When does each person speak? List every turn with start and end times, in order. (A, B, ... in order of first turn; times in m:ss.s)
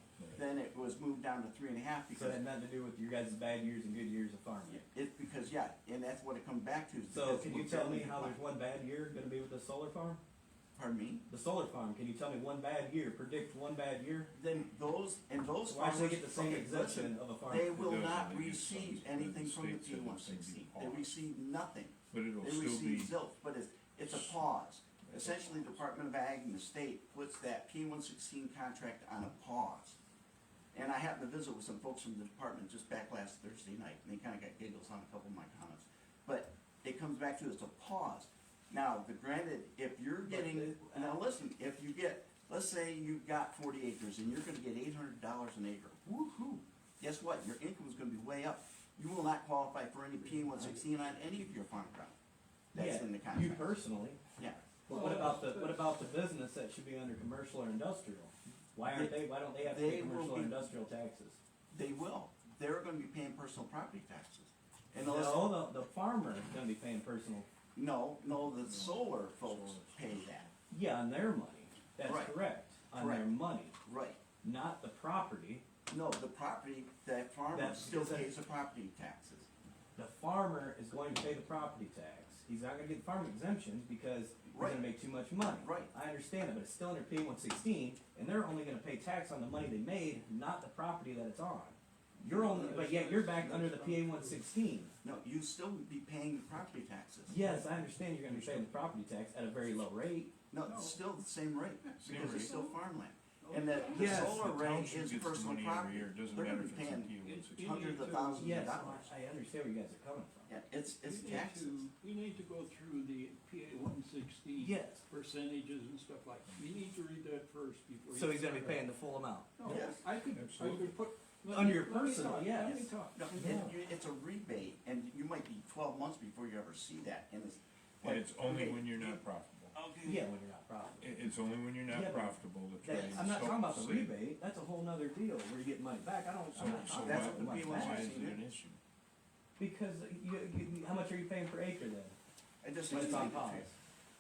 0:00.3-0:02.4 A
0:02.1-0:04.8 B
0:04.7-0:08.4 A
0:07.1-0:10.2 B
0:10.8-0:11.2 A
0:11.3-0:14.3 B
0:14.3-0:30.0 A
0:15.7-0:17.7 B
0:17.6-0:21.2 C
0:22.1-0:23.2 C
0:24.1-0:24.4 C
0:25.1-0:25.8 C
0:30.7-0:46.0 A
0:40.2-0:41.2 B
0:46.1-0:46.6 B
0:47.0-0:52.2 A
0:50.2-0:51.0 D
0:52.7-0:53.8 A
0:52.7-0:54.2 B
0:54.4-0:54.6 A
0:54.8-1:01.4 B
0:54.9-0:56.1 D
0:58.9-1:00.7 A
1:01.7-1:05.6 A
1:05.0-1:07.5 B
1:07.8-1:10.5 A
1:08.4-1:10.5 C
1:10.7-1:13.8 B
1:12.0-1:12.4 A
1:13.0-1:13.3 A
1:13.8-1:14.2 A
1:14.4-1:15.6 B
1:15.9-1:19.5 A
1:17.5-1:18.3 B
1:20.0-1:34.9 B
1:24.5-1:24.9 A
1:25.5-1:25.9 A
1:32.2-1:34.4 D
1:35.0-1:37.4 A
1:37.3-1:40.4 B
1:38.3-1:38.9 C
1:40.5-1:49.1 A
1:40.6-1:41.0 D
1:42.0-1:42.6 C
1:42.1-1:42.8 D
1:43.4-1:44.4 D
1:43.9-1:48.1 C
1:47.2-1:49.0 D
1:48.4-1:50.5 B
1:50.5-1:51.9 A
1:50.8-1:58.9 D
1:54.6-1:55.0 B
1:56.5-1:56.8 C
1:58.1-1:59.8 B
1:59.6-2:03.2 D
1:59.6-2:00.0 A
2:00.3-2:01.0 C
2:01.5-2:03.6 B
2:03.1-2:09.2 A
2:03.3-2:03.8 C
2:08.0-2:09.7 C
2:09.7-2:10.2 A
2:10.0-2:11.2 B
2:11.0-2:14.2 C
2:11.9-2:18.3 B
2:12.9-2:13.3 A
2:16.5-2:18.8 C
2:16.8-2:18.4 A
2:19.6-2:22.2 B
2:22.6-2:23.7 A
2:22.9-2:23.8 B